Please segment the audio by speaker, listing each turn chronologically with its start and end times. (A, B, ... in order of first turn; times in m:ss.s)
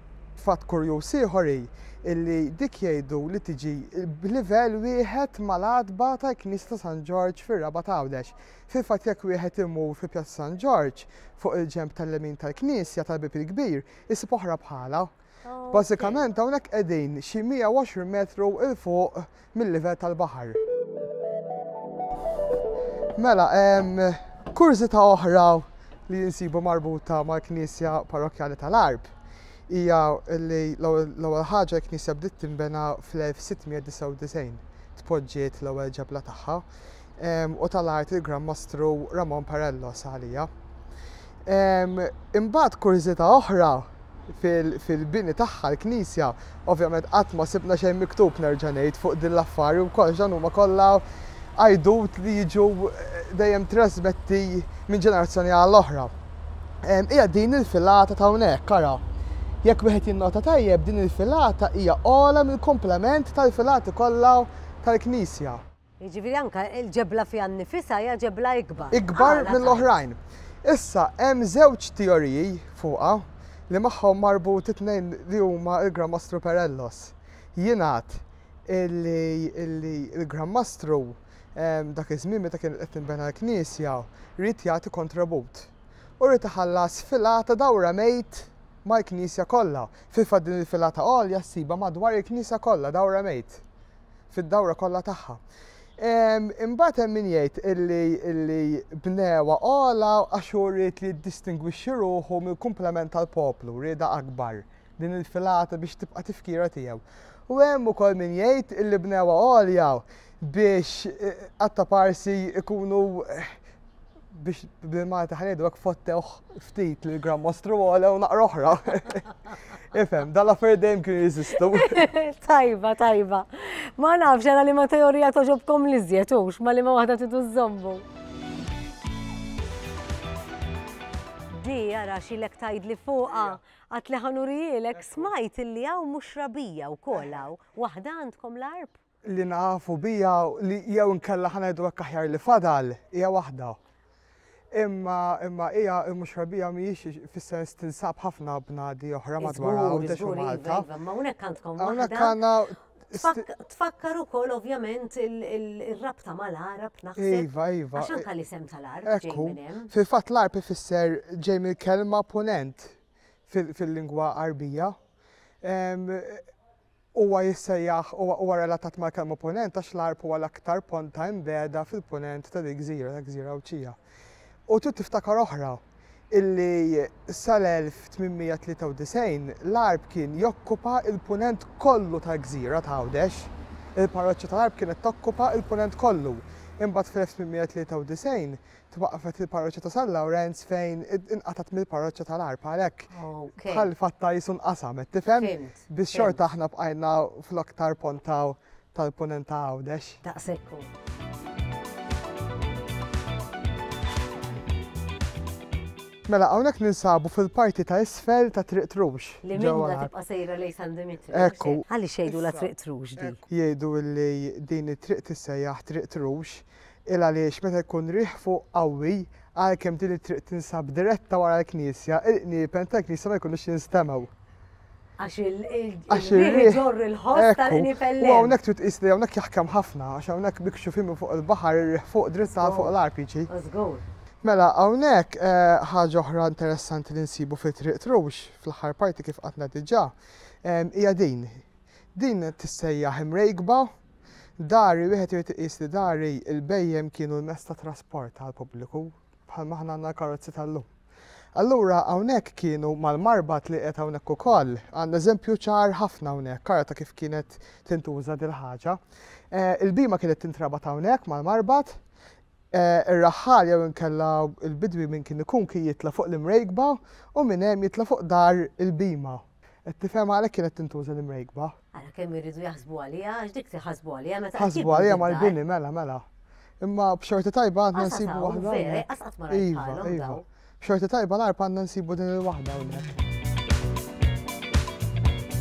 0:00.4-0:15.1 A
0:15.4-0:16.2 B
0:15.7-0:20.6 A
0:23.2-0:29.1 A
0:29.7-0:36.7 A
0:37.2-0:40.5 A
0:41.5-0:51.0 A
0:51.6-0:56.1 A
0:56.8-0:59.0 A
0:59.6-1:05.6 A
1:06.0-1:10.0 B
1:08.9-1:33.6 A
1:34.3-1:35.4 A
1:36.0-1:53.6 A
1:54.3-1:59.4 A
1:59.9-2:02.1 A
2:01.7-2:08.0 B
2:11.6-2:18.9 B
2:13.3-2:13.6 A
2:15.0-2:15.3 A
2:17.1-2:17.4 A
2:19.2-2:23.8 A
2:24.7-2:30.9 A
2:29.4-2:32.4 B
2:31.8-2:33.5 A
2:33.1-2:39.9 B
2:37.2-2:38.3 A
2:39.0-2:43.0 A
2:43.5-2:45.0 A
2:45.6-2:46.5 A
2:47.1-2:54.0 A
2:54.7-3:20.2 A
3:13.1-3:13.9 B
3:15.3-3:16.4 B
3:20.2-3:20.9 B
3:26.3-3:30.1 A
3:29.4-3:33.4 B
3:31.3-3:44.3 A
3:45.2-3:48.6 B
3:46.1-3:53.5 A
3:52.5-3:52.9 B
3:53.5-3:54.0 B
3:54.4-4:01.6 A
4:02.2-4:03.9 A
4:04.6-4:10.9 A
4:11.6-4:19.0 A
4:19.5-4:22.0 A
4:22.7-4:31.7 A
4:31.9-4:35.6 B
4:34.6-4:36.3 A
4:36.8-4:43.2 A
4:37.9-4:40.4 B